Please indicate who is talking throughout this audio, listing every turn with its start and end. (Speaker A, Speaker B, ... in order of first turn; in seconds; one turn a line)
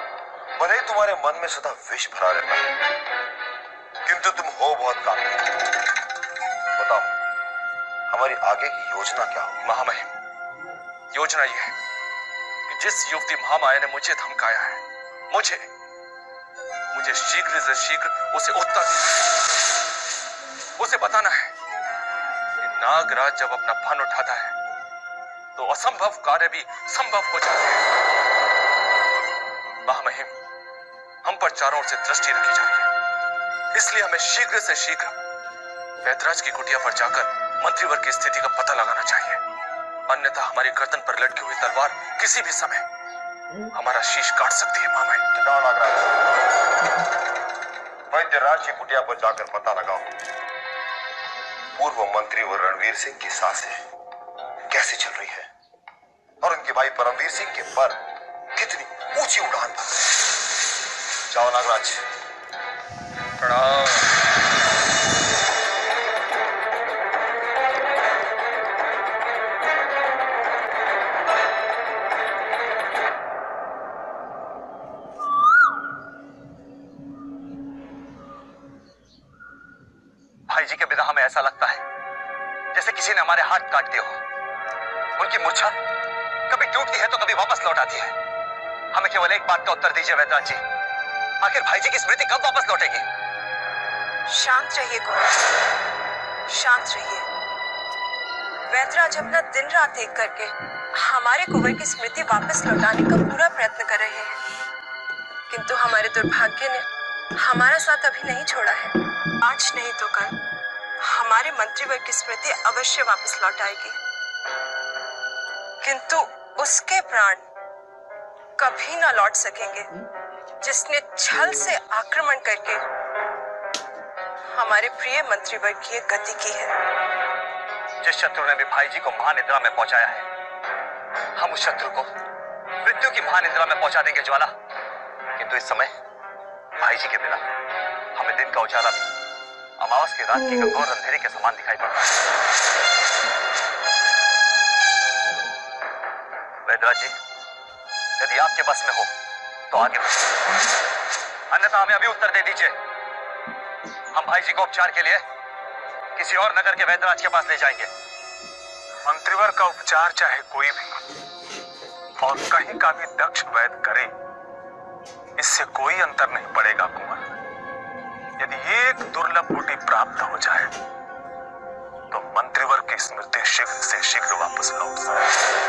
Speaker A: 0.6-2.7
Speaker A: 4.0-5.6
Speaker A: 6.7-7.1
Speaker A: 8.1-9.7
Speaker B: 9.6-10.1
Speaker B: 11.1-11.7
Speaker B: 12.7-15.7
Speaker B: 16.9-19.2
Speaker B: 20.8-21.5
Speaker B: 22.6-24.5
Speaker B: 25.6-27.8
Speaker B: 29.9-30.3
Speaker B: 31.2-32.9
Speaker B: 33.7-35.1
Speaker B: 36.0-39.4
Speaker B: 40.1-42.8
Speaker B: 43.7-45.2
Speaker A: 45.3-46.2
Speaker A: 48.1-50.1
Speaker A: 51.7-53.8
Speaker A: 54.7-55.5
Speaker A: 56.4-58.0
Speaker A: 58.5-60.0
Speaker A: 61.3-62.0
Speaker B: 63.4-64.1
Speaker C: 80.5-81.8
Speaker C: 82.7-84.2
Speaker C: 85.2-85.7
Speaker C: 86.5-88.1
Speaker C: 88.9-90.6
Speaker C: 91.4-93.0
Speaker D: 94.3-95.4
Speaker D: 96.5-97.2
Speaker D: 98.7-104.4
Speaker D: 105.5-106.8
Speaker D: 107.4-110.3
Speaker D: 111.0-113.9
Speaker D: 115.8-117.4
Speaker D: 118.6-119.9
Speaker D: 120.6-122.8
Speaker D: 124.5-126.7
Speaker C: 128.0-130.2
Speaker C: 131.4-132.1
Speaker C: 132.8-134.5
Speaker C: 135.4-135.9
Speaker C: 136.8-137.4
Speaker C: 138.2-139.1
Speaker C: 139.8-142.1
Speaker C: 146.7-147.1
Speaker C: 148.2-149.1
Speaker C: 149.7-150.3
Speaker C: 151.5-152.7
Speaker C: 154.1-155.2
Speaker C: 156.2-157.9
Speaker E: 159.0-161.0
Speaker E: 162.2-164.1
Speaker E: 165.4-167.3
Speaker E: 168.4-170.7
Speaker E: 172.1-175.3